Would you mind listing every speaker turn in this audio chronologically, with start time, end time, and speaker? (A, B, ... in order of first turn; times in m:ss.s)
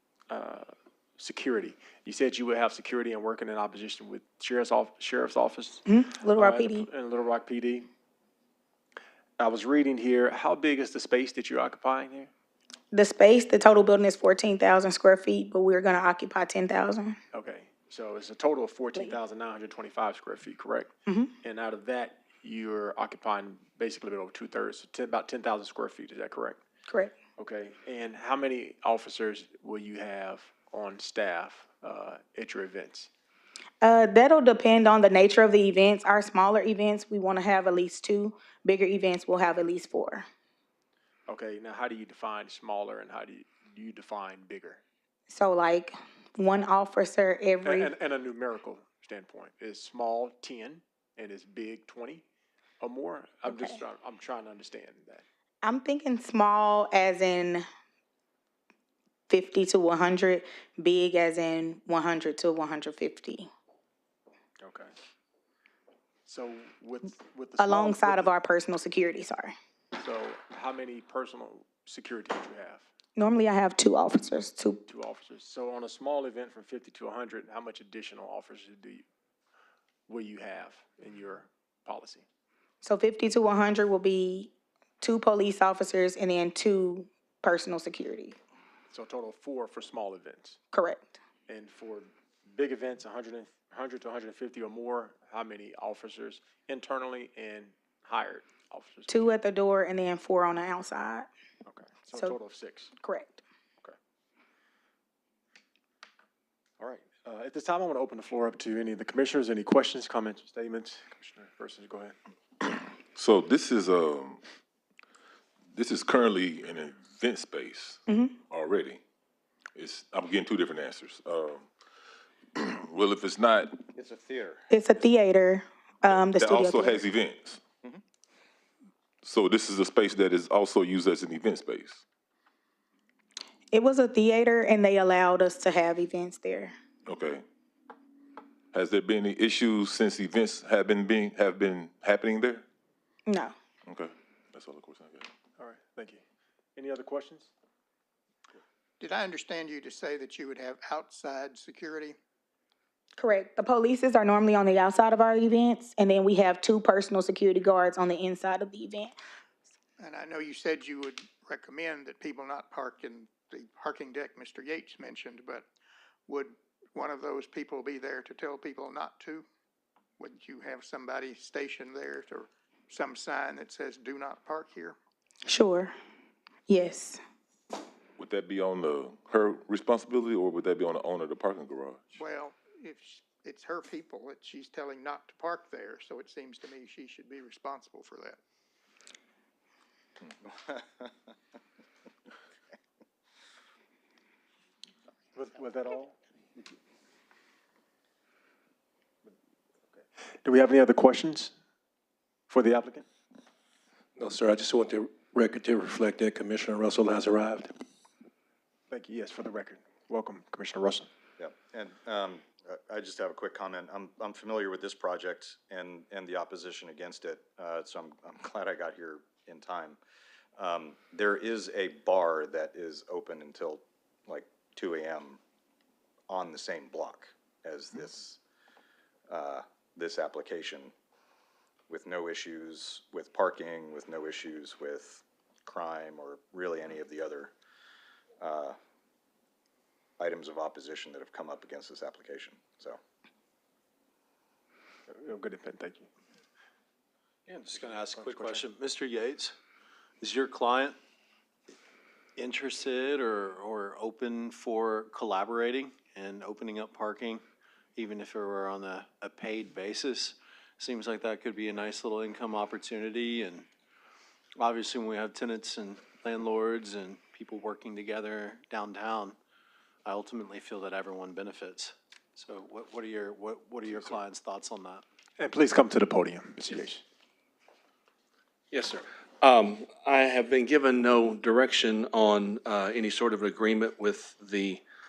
0:00.3-0:07.9 A
0:05.9-0:06.9 B
0:09.4-0:12.3 A
0:12.9-0:17.2 B
0:17.3-0:20.9 A
0:21.1-0:21.3 B
0:21.4-0:26.6 A
0:26.9-0:27.2 B
0:27.4-0:33.1 A
0:33.8-0:40.2 B
0:41.3-0:44.8 A
0:45.3-0:47.9 B
0:47.6-0:52.2 A
0:52.8-0:55.2 A
0:53.5-0:53.8 B
0:55.6-0:57.6 B
0:59.3-1:03.5 B
1:04.6-1:04.9 A
1:06.2-1:08.3 A
1:07.6-1:09.5 B
1:10.0-1:12.9 A
1:13.2-1:14.8 B
1:14.9-1:19.0 A
1:20.1-1:22.2 A
1:22.8-1:28.4 B
1:28.9-1:30.6 A
1:30.7-1:31.2 B
1:31.5-1:39.3 A
1:39.1-1:41.3 B
1:41.7-1:42.9 A
1:43.0-1:43.4 B
1:46.8-1:52.2 A
1:52.7-1:54.4 C
1:55.7-1:59.0 C
1:58.1-1:58.3 B
1:59.7-2:01.7 C
2:02.6-2:03.7 C
2:03.9-2:04.7 D
2:04.7-2:07.0 B
2:06.0-2:07.6 C
2:09.2-2:12.0 C
2:13.7-2:16.7 B
2:17.1-2:17.4 C
2:18.7-2:22.6 C
2:23.3-2:23.5 B
2:23.9-2:25.3 C
2:25.6-2:26.2 A
2:26.8-2:27.5 A
2:29.0-2:32.2 E
2:33.2-2:39.1 B
2:40.0-2:45.7 E
2:46.3-2:49.5 E
2:50.2-2:55.0 E
2:55.5-2:55.9 B
2:56.7-2:57.2 B
2:58.2-3:02.0 C
3:02.1-3:08.4 E
3:10.6-3:11.0 D
3:15.3-3:16.6 A
3:20.4-3:21.5 A
3:22.5-3:23.1 A
3:24.2-3:27.7 F
3:28.9-3:31.1 A
3:31.4-3:40.0 D
3:40.6-3:45.4 D
3:46.3-3:48.4 D
3:49.3-3:50.9 D
3:51.9-3:57.5 D
3:58.4-3:58.8 D
4:00.2-4:03.0 D
4:05.1-4:06.1 A
4:07.5-4:09.5 G
4:10.2-4:11.0 G
4:12.4-4:17.4 G
4:18.0-4:23.6 G
4:24.6-4:29.4 G
4:30.0-4:35.0 G
4:35.4-4:37.0 A
4:38.7-4:44.8 H